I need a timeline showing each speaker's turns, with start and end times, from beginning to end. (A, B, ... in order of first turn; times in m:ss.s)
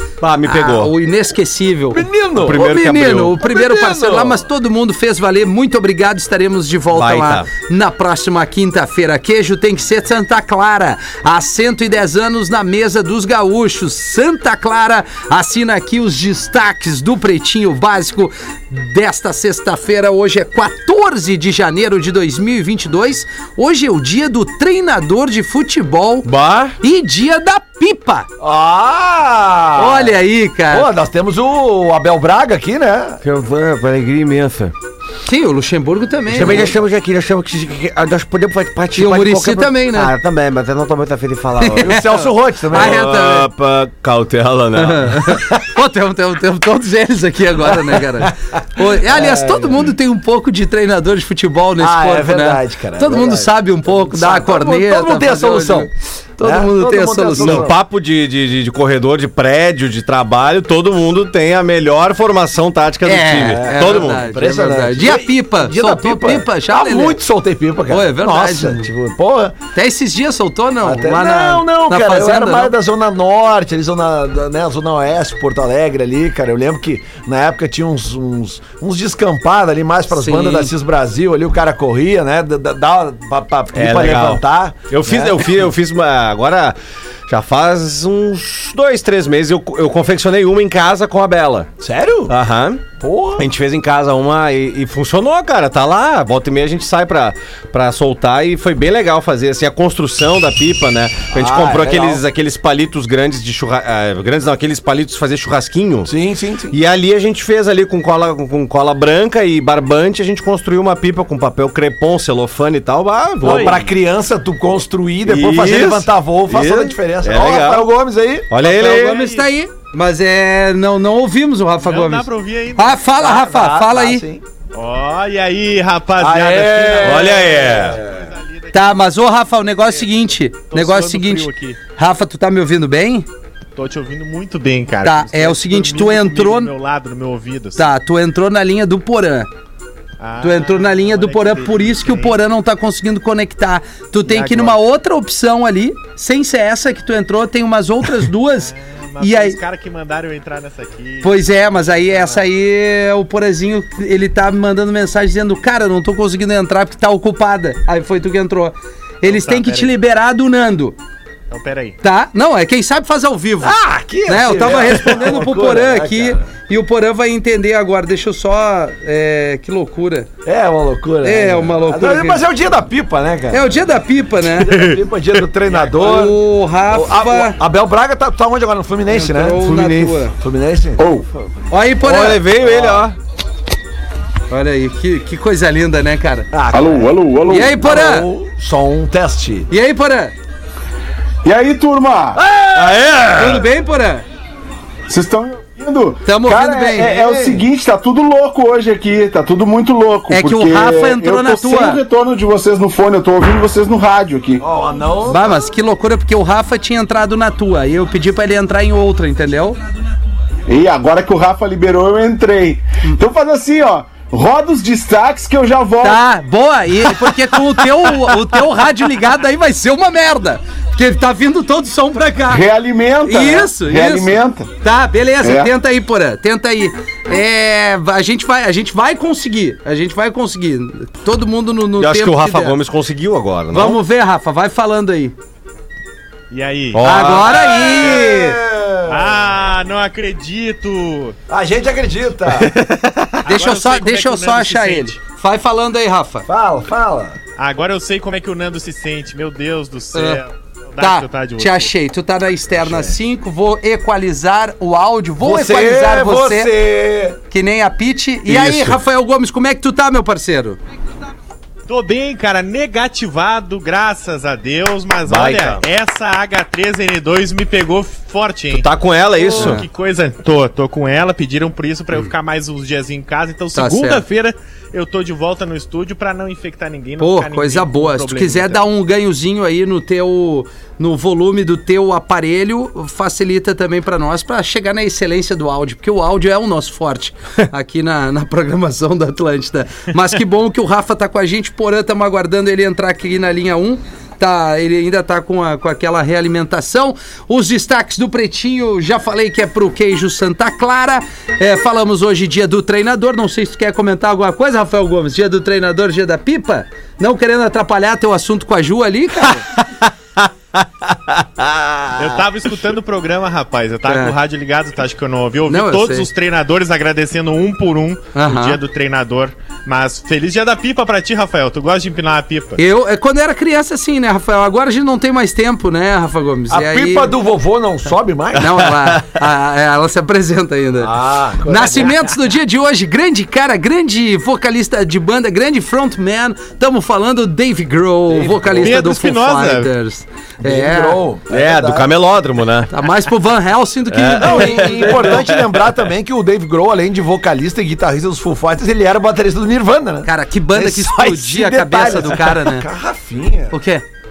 0:00.2-0:00.9 A
0:00.4-0:26.3 B
0:01.9-0:02.7 C
0:02.4-0:03.5 A
0:03.4-0:04.4 C
0:06.9-0:07.5 A
0:26.2-0:26.8 A
0:26.8-0:28.3 B
0:28.4-0:30.2 C
0:29.8-0:30.9 B
0:30.7-0:33.2 C
0:33.2-0:34.7 A
0:35.2-0:36.7 B
0:36.3-0:36.8 C
0:36.3-0:42.0 A
0:39.0-0:40.1 B
0:41.6-0:43.5 B
0:41.8-0:43.0 C
0:42.7-0:45.4 A
0:44.8-0:57.7 B
0:48.3-0:49.9 C
0:51.8-0:57.8 C
0:57.4-1:04.2 A
1:03.0-1:07.2 B
1:03.5-1:09.6 C
1:07.9-1:08.9 B
1:09.7-1:12.8 B
1:10.8-1:25.6 C
1:20.1-1:20.7 B
1:23.7-1:26.8 A
1:27.3-1:31.7 A
1:31.8-1:32.4 C
1:32.3-1:32.8 A
1:33.0-1:33.5 C
1:33.4-1:46.1 A
1:41.3-1:42.2 C
1:46.0-1:46.8 C
1:46.7-1:53.9 A
1:53.4-1:58.5 C
1:53.4-1:53.7 B
1:55.3-1:57.9 A
1:58.5-1:59.2 A
1:58.6-2:04.2 B
1:58.8-1:59.5 D
2:01.8-2:03.0 D
2:03.2-2:04.4 C
2:04.7-2:11.8 D
2:06.2-2:08.3 C
2:07.0-2:08.0 A
2:08.7-2:13.3 B
2:13.8-2:17.9 D
2:15.0-2:16.7 B
2:17.8-2:19.5 B
2:20.2-2:22.4 D
2:20.4-2:29.6 B
2:24.2-2:24.8 D
2:28.6-2:32.5 D
2:31.2-2:41.0 B
2:39.2-2:40.0 D
2:41.5-2:42.0 D
2:42.0-2:50.3 B
2:43.6-2:46.4 C
2:50.4-2:53.8 C
2:51.2-2:52.4 B
2:53.5-2:55.0 B
2:54.5-3:01.0 C
2:55.7-2:56.0 D
2:56.0-2:57.6 B
2:59.1-3:00.3 B
3:01.0-3:01.3 E
3:01.7-3:02.4 B
3:02.0-3:03.2 A
3:02.6-3:03.0 C
3:04.5-3:06.5 B
3:06.5-3:09.7 C
3:06.7-3:07.8 E
3:07.5-3:08.3 B
3:09.7-3:10.3 B
3:11.4-3:12.4 E
3:12.3-3:13.6 C
3:12.8-3:13.3 A
3:13.3-3:14.2 B
3:15.1-3:24.6 E
3:16.2-3:17.2 B
3:17.0-3:17.6 C
3:20.3-3:22.0 B
3:24.6-3:25.6 C
3:25.3-3:29.8 B
3:30.7-3:36.2 E
3:36.0-3:42.6 B
3:37.0-3:38.3 E
3:42.5-3:44.7 E
3:43.2-3:52.8 B
3:45.4-3:45.7 E
3:52.0-3:54.0 A
3:53.7-3:55.4 B
3:56.5-3:58.3 D
3:56.9-3:57.7 A
3:57.0-3:58.6 B
3:57.4-3:59.4 C
3:59.1-4:01.4 D
4:01.5-4:02.7 C
4:02.6-4:03.4 A
4:03.4-4:05.2 D
4:03.4-4:06.5 B
4:06.5-4:07.4 C
4:07.6-4:11.9 D
4:10.1-4:10.4 B
4:11.0-4:16.7 B
4:12.7-4:13.2 C
4:15.4-4:17.4 C
4:17.5-4:20.8 B
4:18.5-4:19.0 A
4:21.9-4:38.8 D
4:25.3-4:25.8 A
4:28.7-4:29.8 A
4:33.8-4:34.2 B
4:37.2-5:09.7 B
5:09.8-5:12.4 A
5:12.2-5:22.8 D
5:14.1-5:14.3 B
5:15.7-5:16.3 B
5:18.3-5:18.8 B
5:22.8-5:27.4 B
5:26.7-5:28.9 C
5:28.6-5:31.1 B
5:31.0-5:32.2 C
5:31.6-5:41.2 B
5:38.3-5:39.0 C
5:38.8-5:39.9 D
5:40.6-5:42.1 C
5:41.5-5:42.9 A
5:42.9-5:45.5 B
5:44.1-5:45.9 A
5:44.4-5:53.8 C
5:50.2-5:52.9 B
5:53.7-5:54.0 B